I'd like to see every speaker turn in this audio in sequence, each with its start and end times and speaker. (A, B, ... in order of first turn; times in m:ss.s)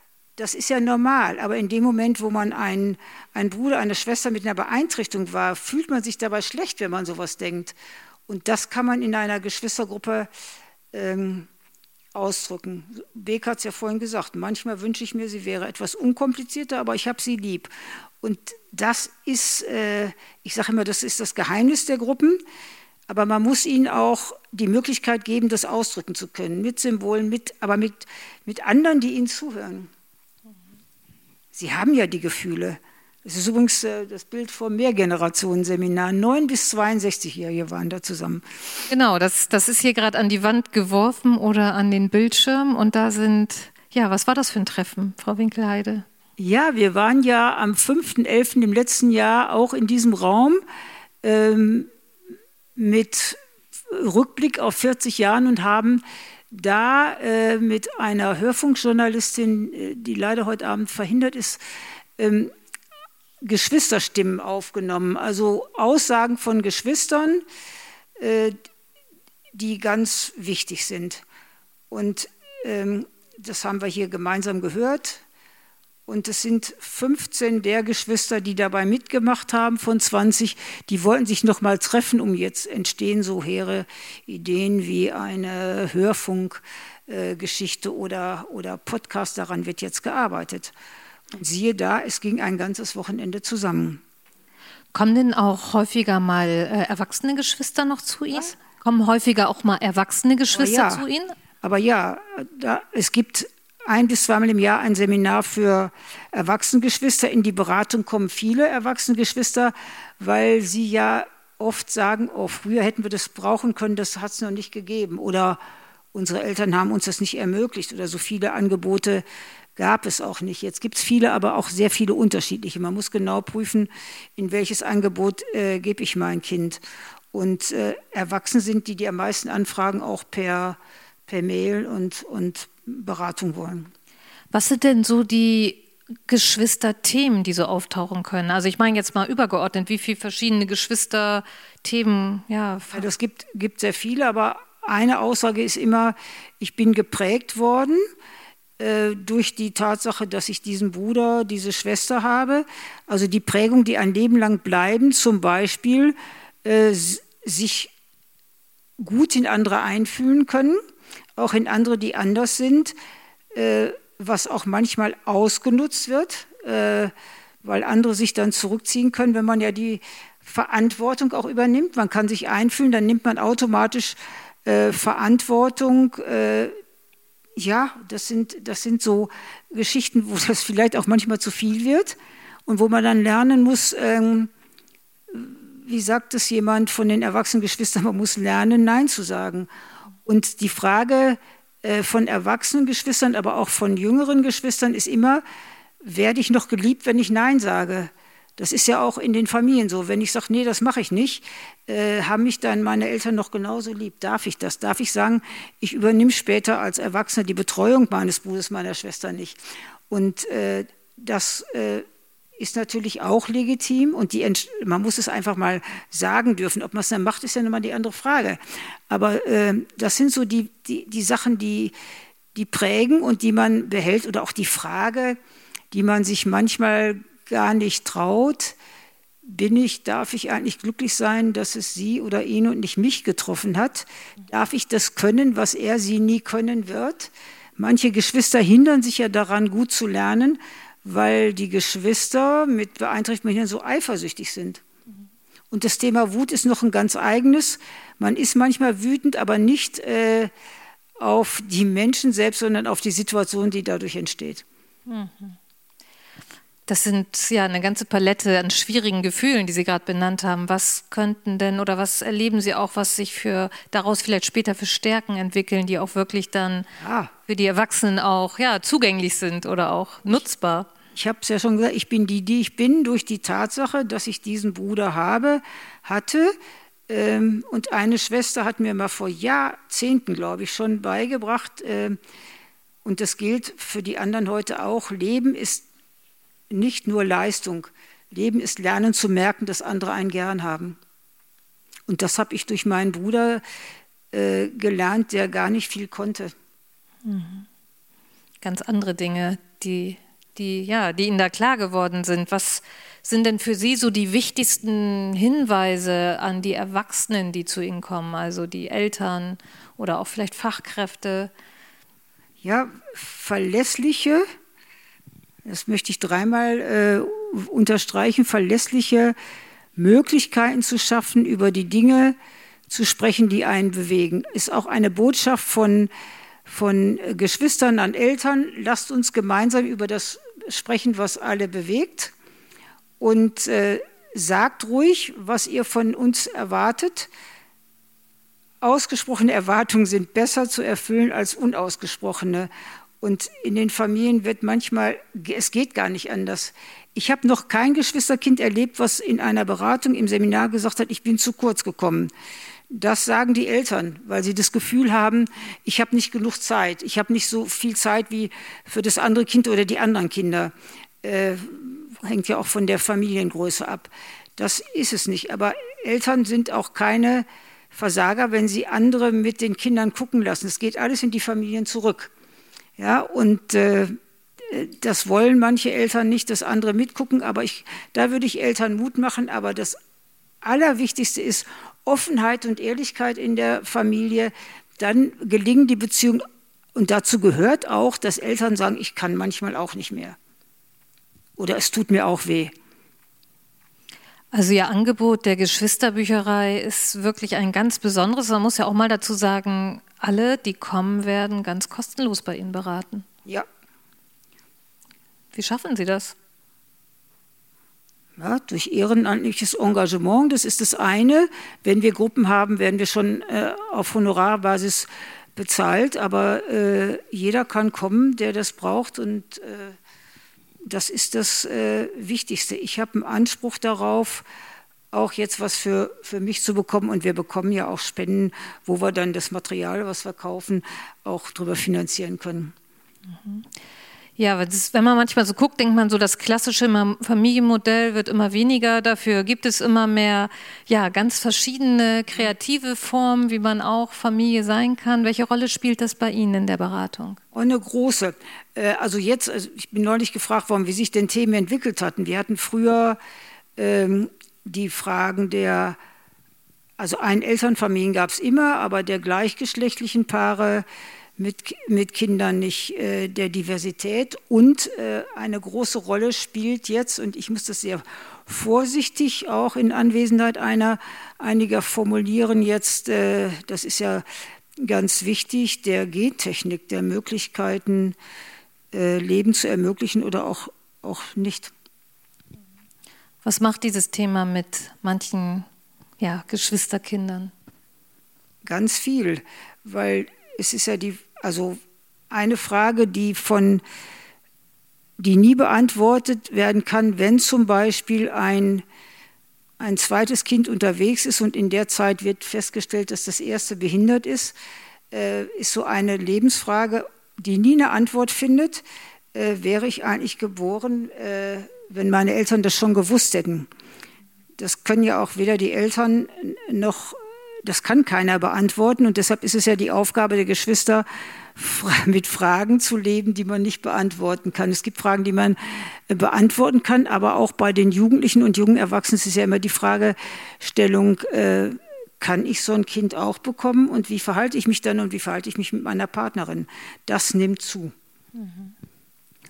0:00.4-0:07.8 A
0:08.3-0:10.3 A
0:10.9-0:11.5 A
0:12.1-0:22.4 A
0:23.1-0:29.9 A
0:31.5-0:38.4 A
0:38.9-0:46.0 B
0:46.4-0:50.6 A
0:51.2-0:51.9 A
0:52.8-1:01.6 A
1:02.2-1:02.5 A
1:03.4-1:07.4 A
1:08.2-1:08.6 A
1:09.5-1:11.2 A
1:11.9-1:15.2 A
1:16.1-1:30.7 A
1:31.3-1:34.0 A
1:34.9-1:41.3 B
1:40.5-1:41.0 A
1:41.6-1:55.6 A
1:56.1-1:59.2 A
1:59.8-2:06.8 A
2:07.3-2:13.9 A
2:14.5-2:23.0 B
2:22.9-2:28.0 A
2:28.8-2:37.9 A
2:39.0-2:40.8 A
2:41.4-2:42.9 A
2:43.5-2:56.8 A
2:57.6-3:04.5 A
3:05.3-3:09.7 A
3:10.3-3:15.4 A
3:16.0-3:29.6 A
3:30.1-3:32.0 A
3:32.6-3:41.9 A
3:42.5-3:45.4 A
3:45.9-3:48.8 A
3:49.4-4:04.8 A
4:05.7-4:10.5 A
4:11.2-4:14.6 A
4:15.1-4:15.6 B
4:16.9-4:26.9 B
4:27.0-4:27.3 A
4:27.5-4:30.9 B
4:31.2-4:36.5 A
4:37.1-4:42.2 A
4:43.0-4:45.9 A
4:46.7-4:51.0 A
4:52.1-4:53.6 A
4:54.3-4:56.5 A
4:57.2-4:57.6 B
4:58.6-5:11.5 B
5:12.6-5:14.4 A
5:15.6-5:19.4 A
5:20.0-5:22.4 A
5:22.9-5:26.1 A
5:26.6-5:32.3 A
5:33.2-5:37.3 A
5:38.8-5:42.7 A
5:43.2-5:52.3 A
5:52.9-6:12.3 A
6:13.0-6:20.0 A
6:20.6-6:26.4 A
6:26.9-6:30.4 A
6:31.6-6:32.7 A
6:34.5-6:43.3 B
6:45.5-6:46.4 B
6:48.4-7:00.0 A
7:00.9-7:04.4 A
7:05.1-7:12.7 A
7:13.4-7:13.6 B
7:14.4-7:27.4 B
7:27.5-7:33.2 A
7:33.8-7:36.0 A
7:37.0-7:40.8 A
7:41.4-7:54.2 A
7:54.8-7:58.2 A
7:58.9-8:01.7 A
8:03.4-8:05.6 B
8:06.2-8:07.5 B
8:08.6-8:11.8 A
8:12.3-8:13.8 A
8:15.2-8:18.8 A
8:19.8-8:24.6 A
8:25.1-8:28.8 A
8:29.3-8:33.7 A
8:34.6-8:57.9 A
8:58.4-8:58.7 B